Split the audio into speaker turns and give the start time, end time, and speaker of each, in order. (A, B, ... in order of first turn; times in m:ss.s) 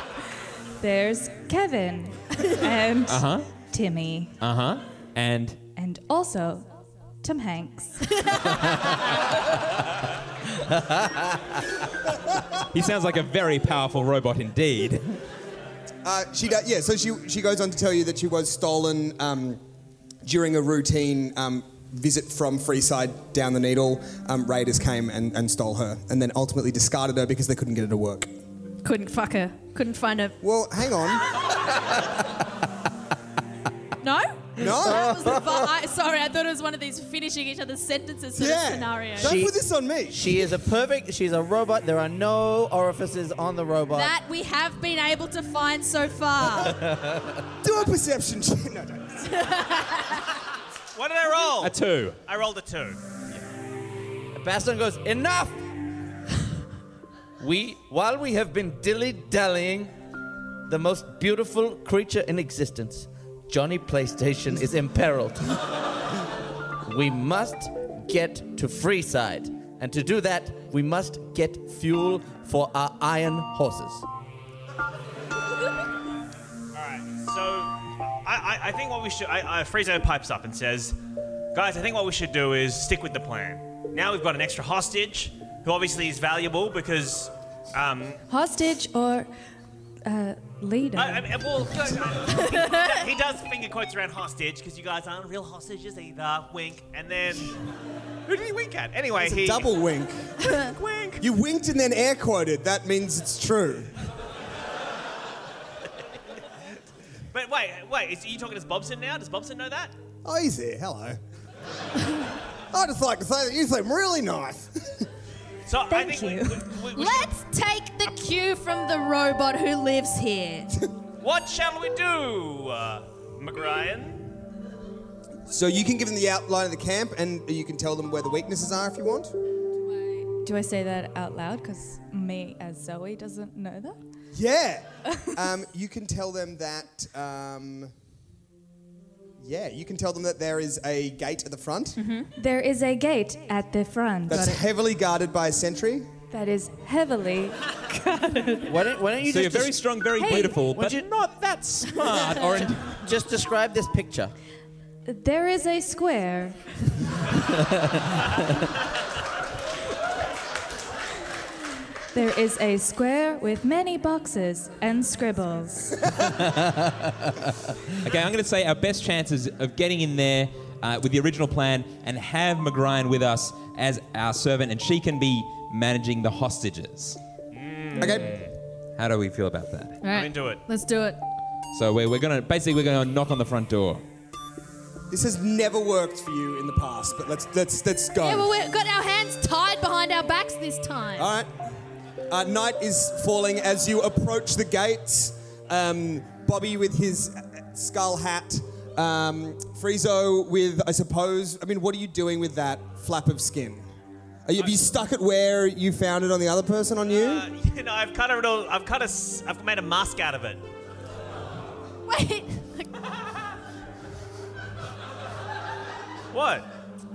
0:00.8-0:04.4 A
0:03.1-0:03.5 B
0:04.4-0:05.6 B
0:05.8-0:06.7 A
0:07.2-0:08.1 A
0:08.2-0:08.5 C
0:10.7-0:11.2 D
0:12.7-0:15.2 B
0:16.0-0:19.6 E
0:20.2-0:28.3 E
0:28.8-0:30.4 C
0:30.4-0:31.3 E
0:34.0-0:39.4 C
0:34.6-0:35.3 E
0:34.7-0:35.6 D
0:38.4-0:40.4 E
0:39.2-0:39.6 D
0:40.1-0:44.2 D
0:43.9-0:46.8 C
0:46.6-0:47.4 D
0:47.6-0:49.4 E
0:49.3-0:50.2 C
0:51.0-0:53.0 F
0:51.6-0:52.2 B
0:54.3-0:55.6 D
0:57.4-0:59.9 D
1:00.7-1:05.6 D
1:06.8-1:14.0 D
1:16.7-1:21.0 F
1:21.5-1:28.2 F
1:28.3-1:29.3 A
1:30.0-1:31.3 A
1:31.0-1:37.6 F
1:32.5-1:32.9 C
1:38.3-1:39.7 F
1:39.2-1:40.3 E
1:40.4-1:41.2 F
1:41.2-1:43.9 E
1:47.3-1:49.9 F
1:50.2-1:51.2 E
1:52.7-1:55.1 E
1:55.7-1:57.3 F
1:55.9-1:56.7 A
1:57.0-2:00.7 C
2:01.2-2:04.3 F
2:05.5-2:09.3 E
2:10.3-2:14.0 A
2:14.3-2:17.9 E
2:19.4-2:22.0 E
2:22.0-2:22.3 C
2:22.4-2:24.6 A
2:24.3-2:26.1 E
2:26.3-2:28.7 A
2:28.7-2:31.1 D
2:29.2-2:33.0 B
2:30.2-2:30.5 A
2:32.9-2:34.3 D
2:35.1-2:36.6 A
2:42.1-2:46.0 A
2:46.4-2:47.1 D
2:48.0-2:57.2 B
2:57.5-2:58.5 F
2:58.0-2:58.4 E
2:59.0-3:00.0 B
3:00.0-3:01.2 C
3:00.1-3:00.6 F
3:01.7-3:04.0 B
3:05.1-3:08.5 E
3:08.2-3:11.3 C
3:11.2-3:11.5 E
3:12.3-3:23.9 E
3:24.5-3:27.5 E
3:27.1-3:30.6 F
3:32.1-3:32.9 C
3:36.3-3:36.7 F